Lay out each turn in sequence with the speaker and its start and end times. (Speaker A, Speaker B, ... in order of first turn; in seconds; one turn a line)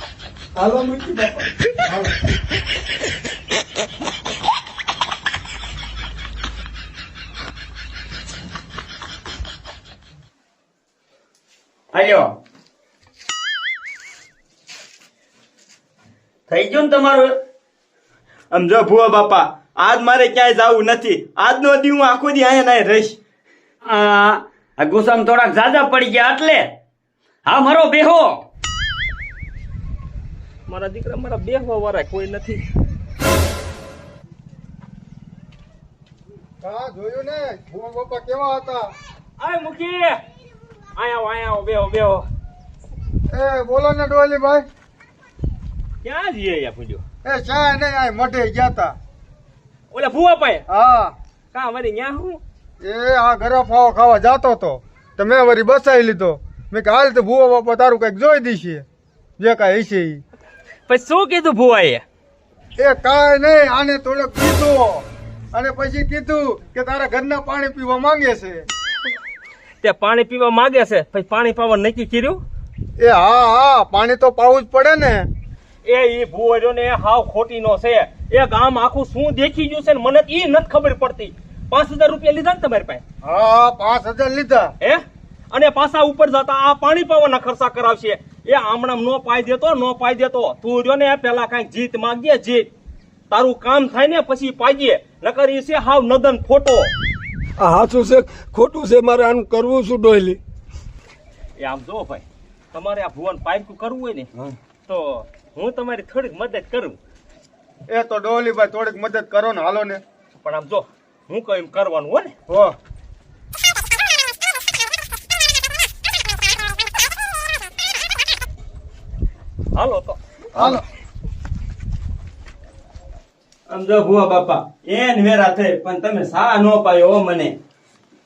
Speaker A: 0.6-1.7
Speaker B: 1.9-2.1
Speaker C: 11.9-12.3
Speaker C: 16.5-17.3
Speaker D: 18.5-23.2
Speaker C: 23.9-26.7
Speaker C: 27.4-28.4
Speaker E: 30.7-32.6
Speaker B: 36.6-38.9
Speaker E: 39.4-40.2
Speaker E: 41.0-42.2
Speaker B: 43.3-44.6
Speaker E: 46.0-47.0
Speaker B: 47.2-49.0
Speaker E: 49.9-50.6
Speaker B: 50.7-51.1
Speaker E: 51.5-52.4
Speaker B: 52.8-58.8
Speaker B: 59.4-60.2
Speaker E: 60.9-62.0
Speaker B: 62.8-68.7
Speaker E: 69.8-72.4
Speaker B: 73.0-75.3
Speaker E: 75.8-83.0
Speaker B: 83.2-84.7
Speaker E: 84.8-92.7
Speaker E: 93.3-96.9
Speaker A: 97.6-100.4
Speaker E: 101.6-104.3
Speaker E: 104.9-107.0
Speaker B: 107.9-110.0
Speaker E: 110.4-112.3
Speaker B: 112.5-112.7
Speaker E: 119.8-120.2
Speaker B: 120.5-120.8
Speaker D: 123.7-127.5